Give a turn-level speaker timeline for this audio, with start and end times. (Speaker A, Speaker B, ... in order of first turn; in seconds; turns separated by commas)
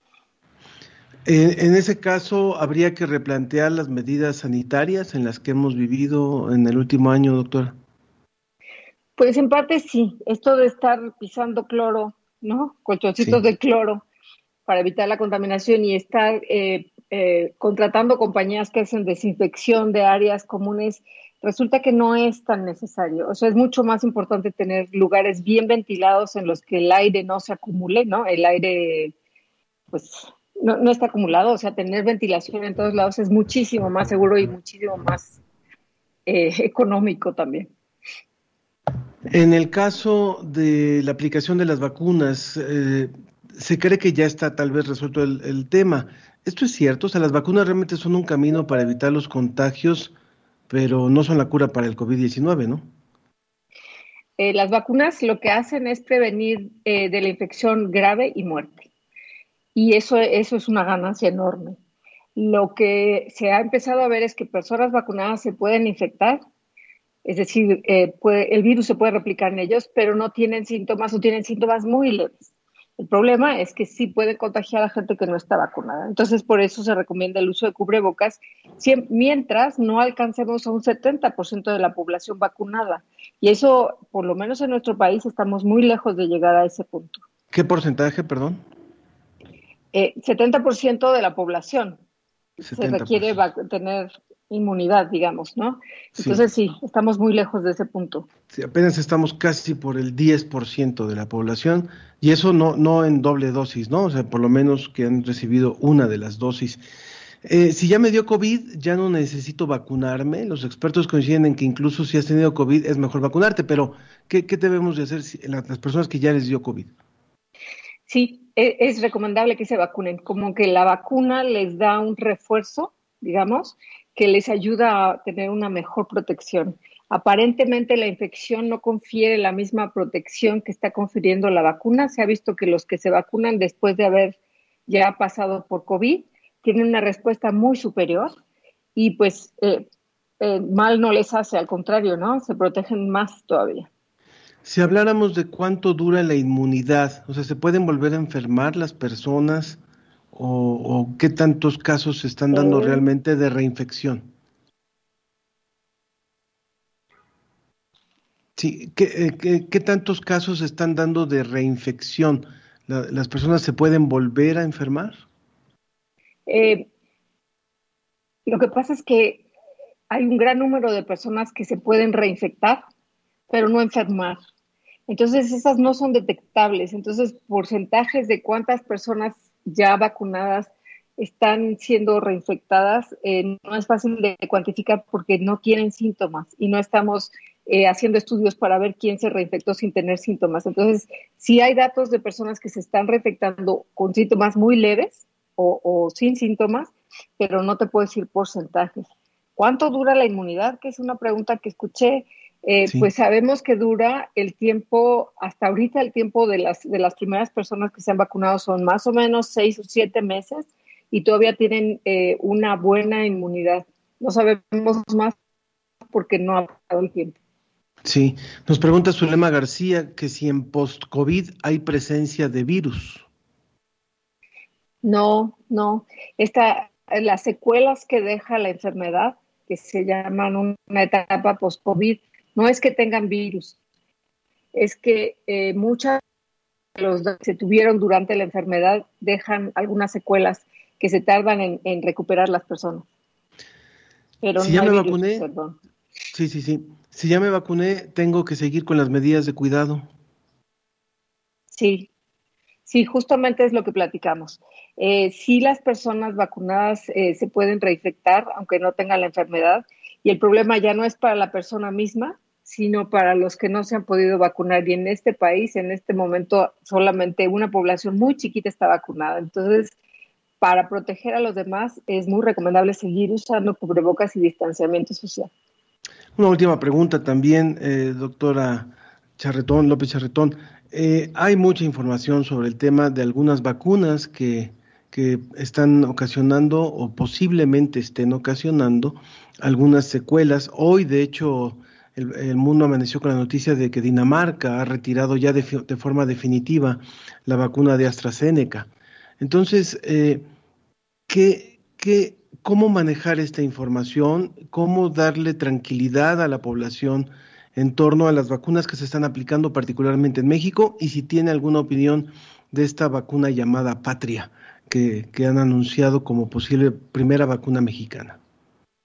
Speaker A: 1.3-7.8, Speaker B: 9.2-14.0, Speaker B: 14.7-29.1, Speaker B: 29.9-35.4, Speaker B: 36.3-37.7, Speaker A: 39.3-50.1, Speaker A: 50.7-52.9, Speaker B: 54.4-58.9, Speaker B: 59.8-61.8, Speaker B: 62.4-66.4, Speaker B: 67.2-87.2, Speaker A: 87.5-88.6, Speaker B: 89.9-92.0, Speaker A: 92.6-93.4, Speaker B: 92.7-98.3, Speaker A: 96.2-96.5, Speaker A: 98.5-106.8, Speaker A: 107.4-116.9, Speaker B: 118.1-138.4, Speaker B: 139.0-139.9, Speaker B: 140.4-143.9, Speaker A: 144.7-149.8, Speaker A: 150.3-154.3, Speaker B: 152.5-153.0, Speaker A: 158.6-165.2, Speaker B: 166.5-166.9, Speaker B: 168.5-169.5, Speaker B: 170.1-172.8, Speaker B: 173.5-174.4, Speaker B: 175.1-215.4, Speaker B: 216.1-217.4, Speaker A: 218.1-223.3, Speaker B: 225.0-233.8, Speaker B: 234.7-236.2, Speaker B: 237.0-243.1, Speaker B: 244.4-245.8, Speaker A: 244.6-245.4, Speaker A: 246.3-250.1, Speaker B: 251.7-252.1, Speaker B: 252.9-269.9, Speaker B: 270.6-275.5, Speaker A: 276.4-298.9, Speaker A: 299.4-300.5, Speaker A: 301.3-318.4